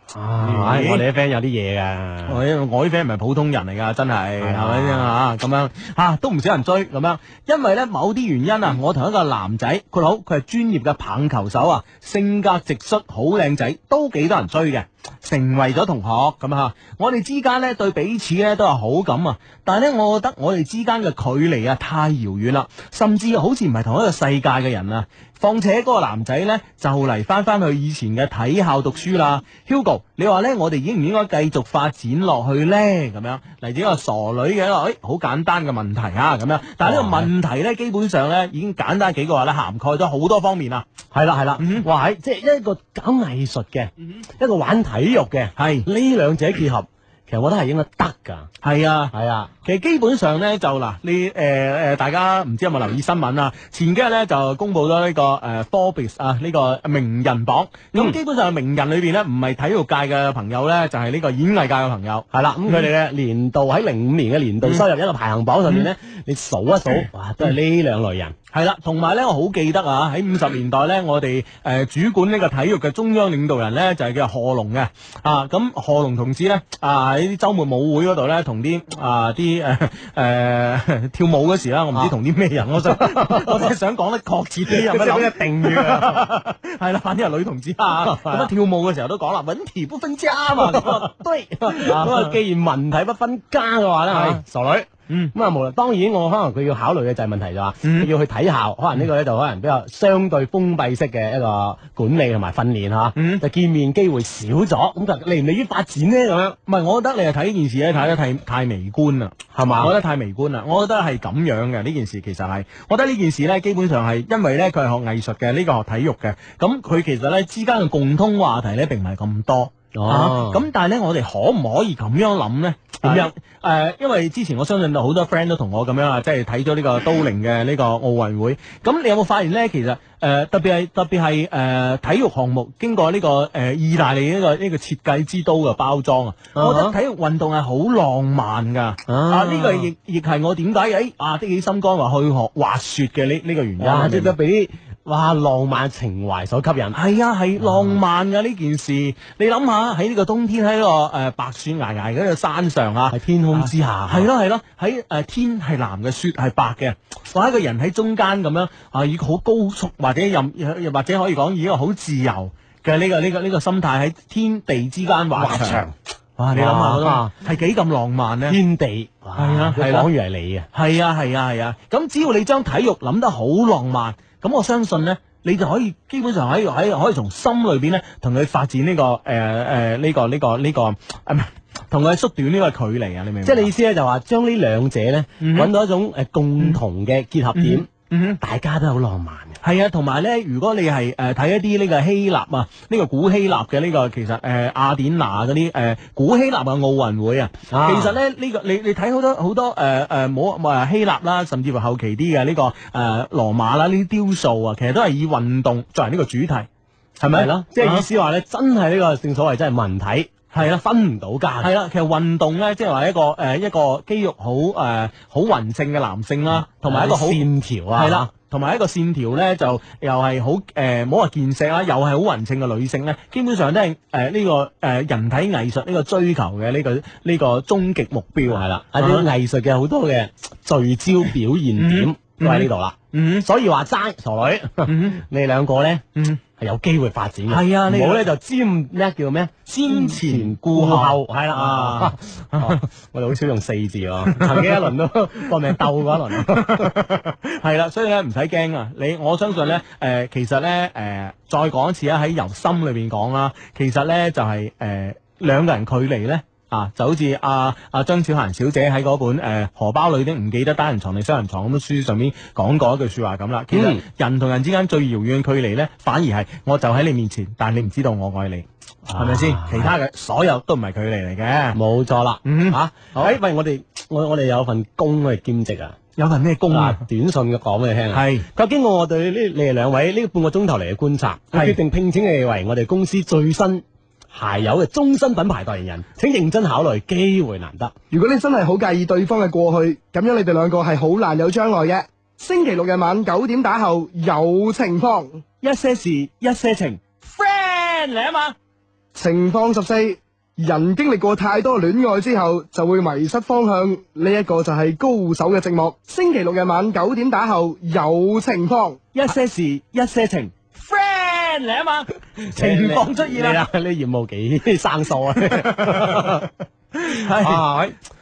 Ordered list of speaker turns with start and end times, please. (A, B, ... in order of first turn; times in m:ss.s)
0:00.1-0:02.4 A
0:00.4-0:01.0 B
0:02.2-0:40.8 B
0:04.4-0:05.1 A
0:36.8-0:37.3 A
0:41.1-0:48.5 A
0:41.6-0:41.8 B
0:45.6-0:45.9 B
0:48.6-1:02.8 B
0:49.1-0:49.5 A
1:02.3-1:08.3 A
1:08.5-1:32.4 B
1:22.7-1:23.7 A
1:24.7-1:26.2 A
1:28.0-1:28.5 A
1:30.5-1:46.6 A
1:34.1-1:34.4 B
1:35.1-1:35.3 B
1:37.8-1:38.1 B
1:43.2-1:43.4 B
1:46.6-2:24.3 B
1:49.5-1:49.9 A
1:59.9-2:00.6 A
2:03.0-2:03.3 A
2:16.5-2:16.9 A
2:19.1-2:19.9 A
2:23.8-2:27.0 A
2:26.9-2:45.8 B
2:33.1-2:34.3 A
2:45.3-2:45.9 A
2:46.4-2:48.6 B
2:46.5-2:47.3 A
2:48.5-2:50.7 A
2:49.4-2:50.1 B
2:50.7-3:03.7 B
3:03.4-3:07.9 A
3:05.4-3:05.7 B
3:07.5-3:08.4 B
3:08.4-3:09.6 A
3:09.6-3:26.7 B
3:17.7-3:18.1 A
3:27.2-3:28.0 B
3:27.3-3:31.7 A
3:30.5-3:30.8 B
3:31.6-3:49.3 B
3:36.8-3:38.3 A
3:48.5-3:56.0 A
3:51.8-3:53.5 B
3:54.8-3:55.2 B
3:56.1-3:56.4 B
3:56.6-4:06.9 A
3:57.5-3:58.3 B
3:59.7-4:02.8 B
4:04.3-4:04.8 B
4:06.4-4:31.8 B
4:23.7-4:24.0 A
4:29.1-4:29.9 A
4:31.7-4:36.0 A
4:32.4-4:33.3 B
4:36.2-4:37.0 B
4:36.7-4:47.9 A
4:38.1-4:38.4 B
4:41.5-4:41.8 B
4:48.1-4:55.4 C
4:55.6-4:58.6 B
4:59.1-5:09.0 C
5:09.1-5:13.6 B
5:12.5-5:16.5 A
5:15.4-5:17.6 B
5:17.2-5:18.0 A